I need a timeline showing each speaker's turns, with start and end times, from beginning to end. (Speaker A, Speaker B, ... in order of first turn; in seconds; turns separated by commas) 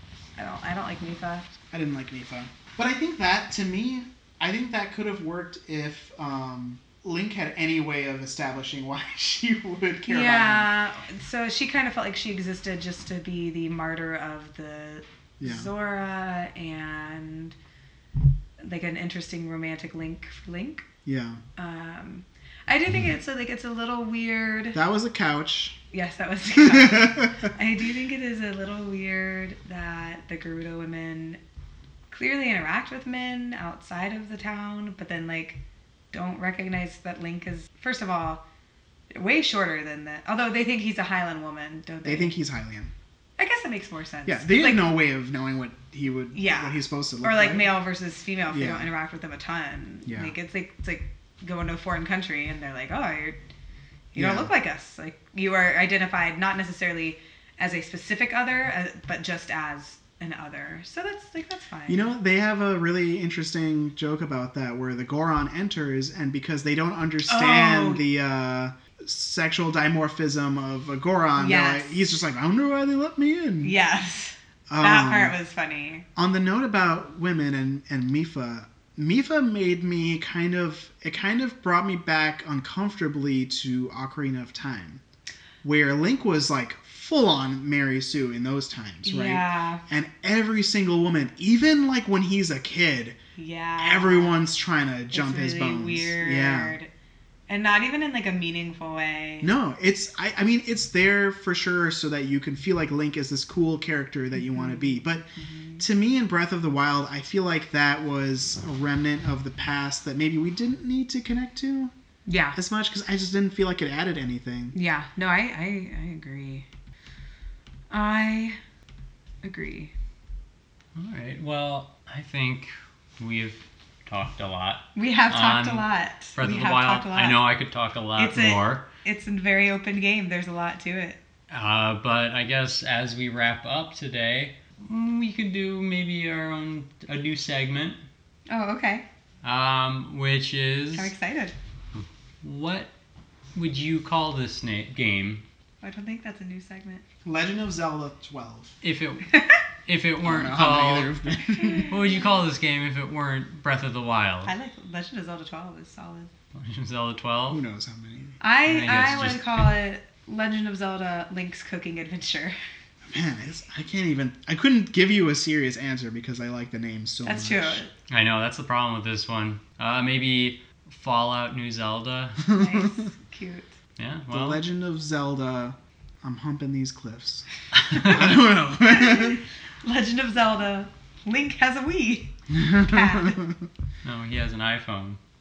Speaker A: 0.4-1.5, Speaker B: 1.7-10.7, Speaker A: 10.1-17.6, Speaker B: 15.4-15.7, Speaker A: 18.6-20.9, Speaker B: 21.1-21.4, Speaker A: 21.6-24.8, Speaker B: 24.7-25.8, Speaker A: 25.9-31.4, Speaker B: 26.6-27.5, Speaker A: 32.1-35.6, Speaker A: 36.1-38.4, Speaker A: 39.1-42.3, Speaker B: 42.0-42.9, Speaker A: 43.4-44.9, Speaker B: 44.2-47.7, Speaker A: 46.3-53.4, Speaker B: 48.5-48.9, Speaker B: 50.1-50.3, Speaker A: 54.1-62.1, Speaker B: 54.2-54.5, Speaker B: 61.9-73.8, Speaker A: 67.3-68.0, Speaker A: 71.4-72.0, Speaker A: 73.6-76.1, Speaker B: 74.7-75.3, Speaker B: 76.2-85.0, Speaker B: 85.6-93.2, Speaker A: 89.0-89.8, Speaker A: 93.4-94.4, Speaker B: 93.8-96.8, Speaker A: 95.1-96.9, Speaker A: 97.5-99.5, Speaker B: 99.4-111.9, Speaker A: 104.4-105.8, Speaker A: 112.3-112.6, Speaker B: 112.5-114.8, Speaker A: 114.7-116.7, Speaker A: 117.9-118.6, Speaker A: 119.4-119.9, Speaker C: 121.0-128.9, Speaker A: 125.0-127.4, Speaker A: 128.2-131.2, Speaker C: 131.5-138.0, Speaker A: 138.5-139.1, Speaker C: 139.4-141.1, Speaker A: 140.9-141.5, Speaker C: 141.9-142.9, Speaker C: 143.5-145.4, Speaker A: 145.8-147.0, Speaker B: 147.2-148.8, Speaker C: 148.8-154.5, Speaker A: 149.3-149.6, Speaker B: 150.2-152.0, Speaker A: 151.5-152.3, Speaker A: 154.4-156.3, Speaker C: 156.5-157.6, Speaker B: 157.5-158.4, Speaker A: 158.4-162.6, Speaker C: 158.7-159.7, Speaker B: 163.1-167.8, Speaker A: 167.2-167.9, Speaker C: 168.1-172.5, Speaker B: 172.5-173.1, Speaker A: 172.5-173.8, Speaker C: 174.0-174.6, Speaker B: 174.3-179.4, Speaker C: 177.7-178.3, Speaker A: 177.9-178.2, Speaker A: 178.8-183.4, Speaker B: 182.5-183.7, Speaker C: 184.0-185.2